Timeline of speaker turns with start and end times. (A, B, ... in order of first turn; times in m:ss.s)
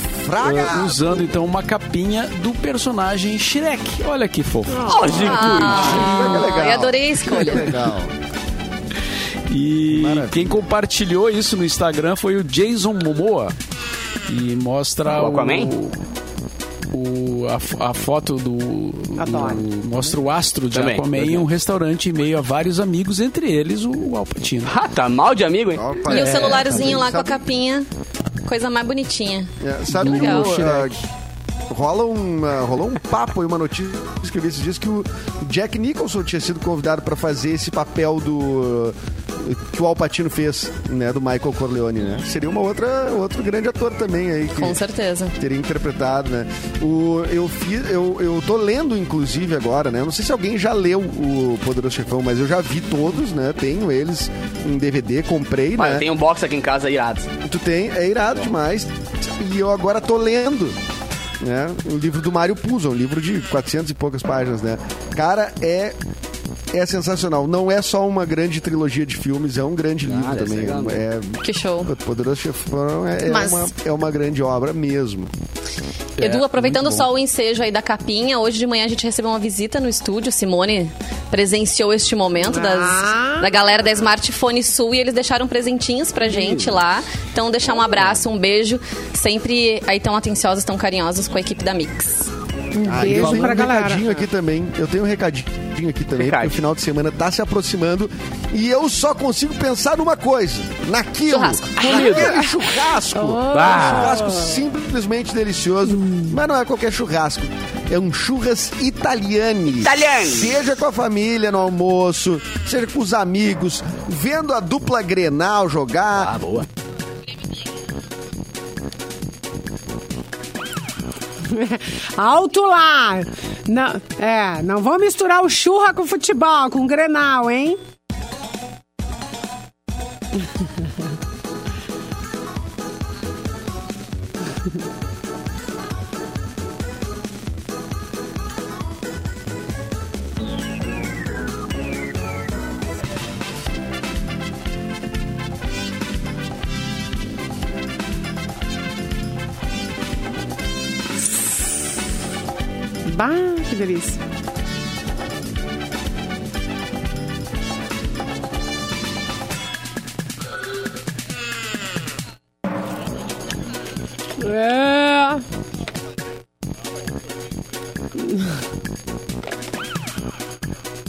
0:00.1-0:01.2 A
0:00.4-0:05.8 B
0:04.8-0:06.4 C
0:05.1-0:07.8 D
0:05.2-0:08.2 A
0:09.5-0:13.5 B
0:09.9-0:10.6 A
0:14.3-0:16.0 B
0:15.1-0:15.7 C
0:16.9-0:24.7 B
0:19.2-0:19.6 E
0:20.7-0:21.5 C
0:24.6-0:27.0 C
0:25.7-0:27.4 A
0:26.1-0:27.9 D
0:28.4-0:30.6 D
0:29.6-0:31.0 A
0:29.9-0:31.0 C
0:31.7-0:44.8 A
0:44.5-0:45.3 D
0:45.4-0:56.1 A
0:55.8-0:57.3 C
0:57.4-1:00.8 A
1:01.4-1:06.0 A
1:06.7-1:15.3 A
1:10.0-1:11.0 C
1:11.4-1:11.9 D
1:13.2-1:13.7 D
1:16.2-1:17.0 B
1:16.2-1:32.3 D
1:22.4-1:23.5 E
1:26.2-1:26.8 C
1:32.7-1:34.2 E
1:32.8-1:56.4 A
1:33.0-1:33.6 B
1:36.2-1:36.6 C
1:41.3-1:42.3 D
1:41.7-1:42.4 C
1:43.1-1:44.6 E
1:43.5-1:44.2 C
1:46.0-1:46.3 E
1:49.8-1:50.6 C
1:56.1-1:56.7 C
2:01.5-2:07.8 E
2:33.0-2:34.2 E
2:44.4-2:45.4 E